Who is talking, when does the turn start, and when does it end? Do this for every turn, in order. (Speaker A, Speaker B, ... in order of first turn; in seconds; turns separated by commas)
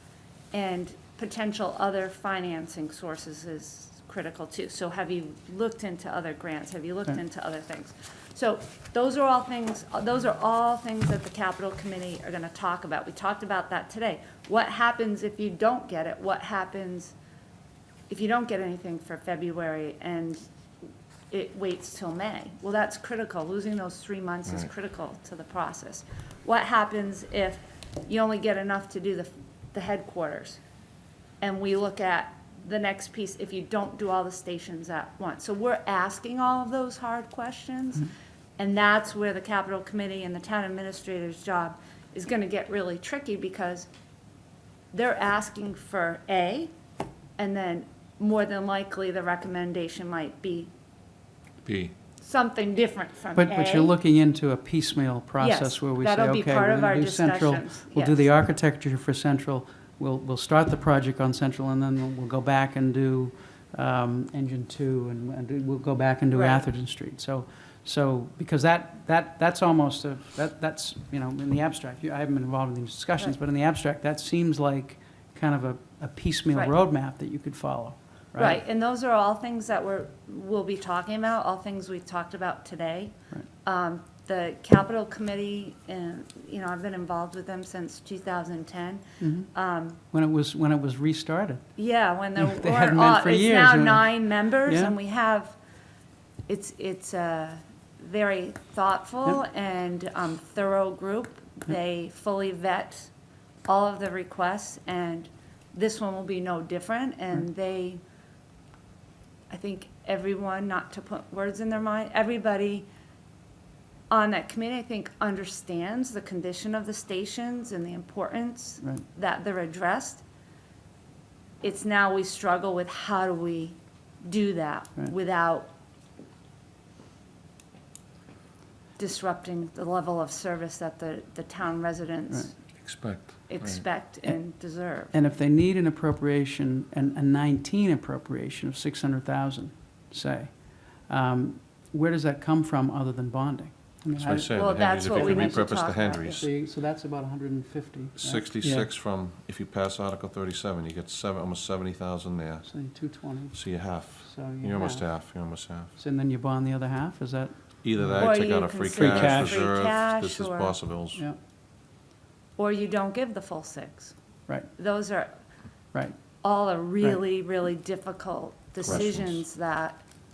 Speaker A: 0.5-17.1, Speaker A: 18.1-20.4, Speaker A: 21.3-30.6, Speaker A: 31.4-43.9, Speaker A: 44.9-46.7, Speaker A: 47.4-50.7, Speaker B: 51.6-51.9, Speaker A: 52.2-53.9, Speaker C: 53.3-78.6, Speaker A: 55.4-58.4, Speaker A: 66.3-66.7, Speaker A: 78.4-90.0, Speaker C: 89.2-89.5, Speaker C: 90.1-91.6, Speaker A: 91.8-95.5, Speaker C: 92.3-94.9, Speaker A: 96.5-103.1, Speaker A: 103.7-108.0, Speaker A: 109.5-112.8, Speaker A: 114.1-120.2, Speaker A: 121.6-125.7, Speaker A: 129.0-132.6, Speaker B: 132.8-133.8, Speaker A: 133.5-135.1, Speaker C: 135.1-148.9, Speaker B: 144.2-146.4, Speaker A: 144.5-146.4, Speaker B: 148.2-152.7, Speaker C: 152.7-155.2, Speaker B: 153.5-155.9, Speaker C: 155.9-158.3, Speaker B: 157.8-161.2, Speaker A: 158.2-160.8, Speaker C: 158.9-159.7, Speaker A: 162.6-164.1, Speaker A: 164.8-165.3, Speaker A: 166.4-170.0, Speaker B: 168.8-169.3